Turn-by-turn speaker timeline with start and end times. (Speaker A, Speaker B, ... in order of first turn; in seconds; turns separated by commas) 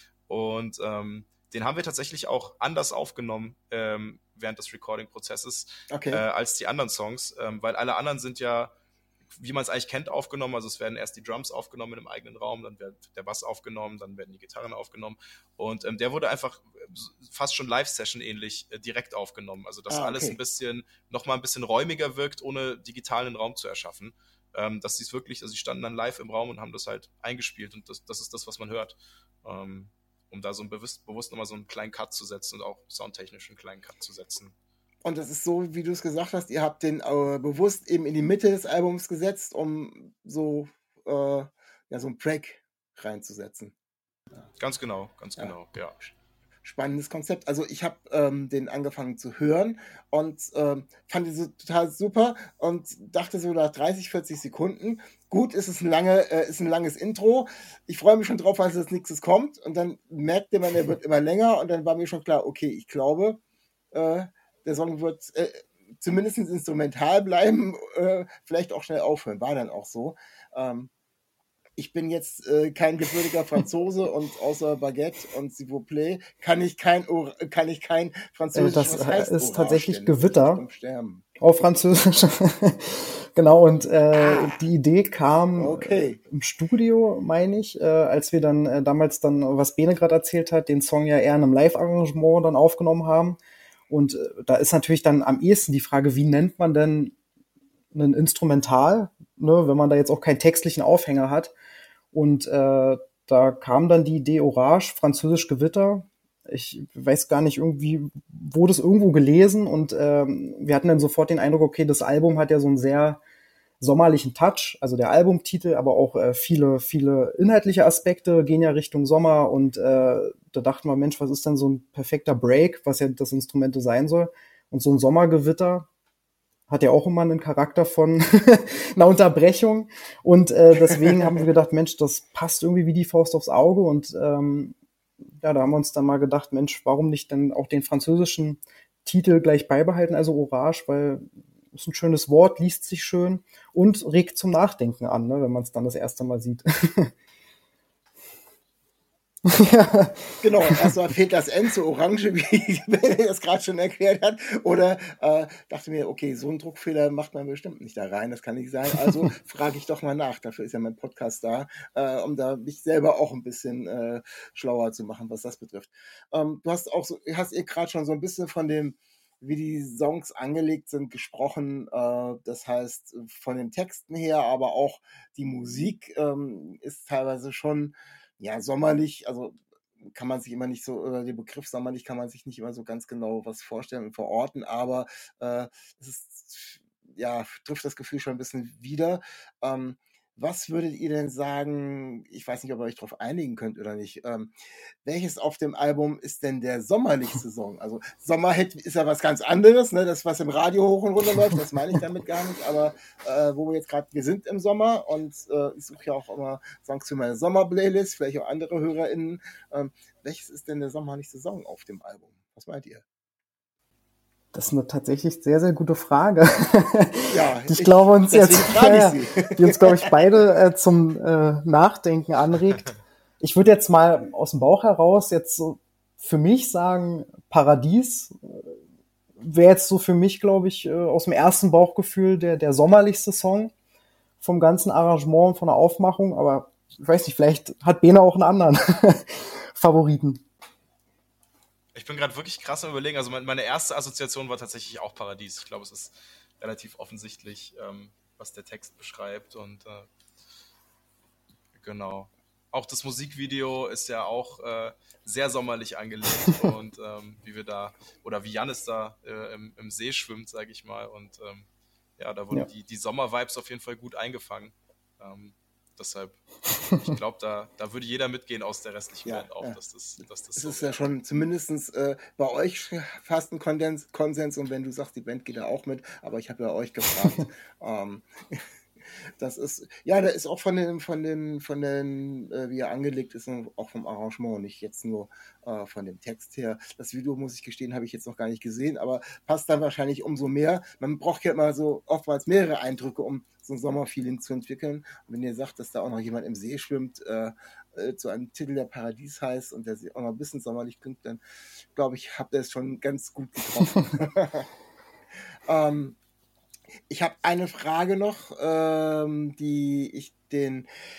Speaker A: 0.3-8.7, Speaker B: 5.9-6.2, Speaker A: 9.4-34.5, Speaker B: 19.9-20.4, Speaker B: 35.0-43.7, Speaker A: 44.6-46.0, Speaker B: 46.6-63.4, Speaker B: 63.9-70.9, Speaker B: 71.8-81.2, Speaker C: 78.5-80.6, Speaker C: 81.4-93.4, Speaker B: 84.2-84.6, Speaker B: 85.6-86.2, Speaker C: 93.9-97.1, Speaker C: 97.9-101.5, Speaker C: 102.1-113.2, Speaker C: 113.8-125.9, Speaker C: 126.7-134.7, Speaker C: 135.4-147.1, Speaker C: 149.4-150.9, Speaker B: 150.4-194.5, Speaker B: 195.0-213.0, Speaker C: 214.5-222.9, Speaker B: 217.3-220.2, Speaker C: 223.4-228.7, Speaker C: 229.4-233.7, Speaker C: 234.4-240.4, Speaker A: 241.9-250.1, Speaker A: 251.7-261.7, Speaker A: 262.2-266.4, Speaker A: 266.9-271.0, Speaker B: 269.2-269.8, Speaker B: 270.6-278.6, Speaker B: 279.4-301.4, Speaker B: 301.9-304.7, Speaker B: 305.6-306.1, Speaker B: 307.1-310.9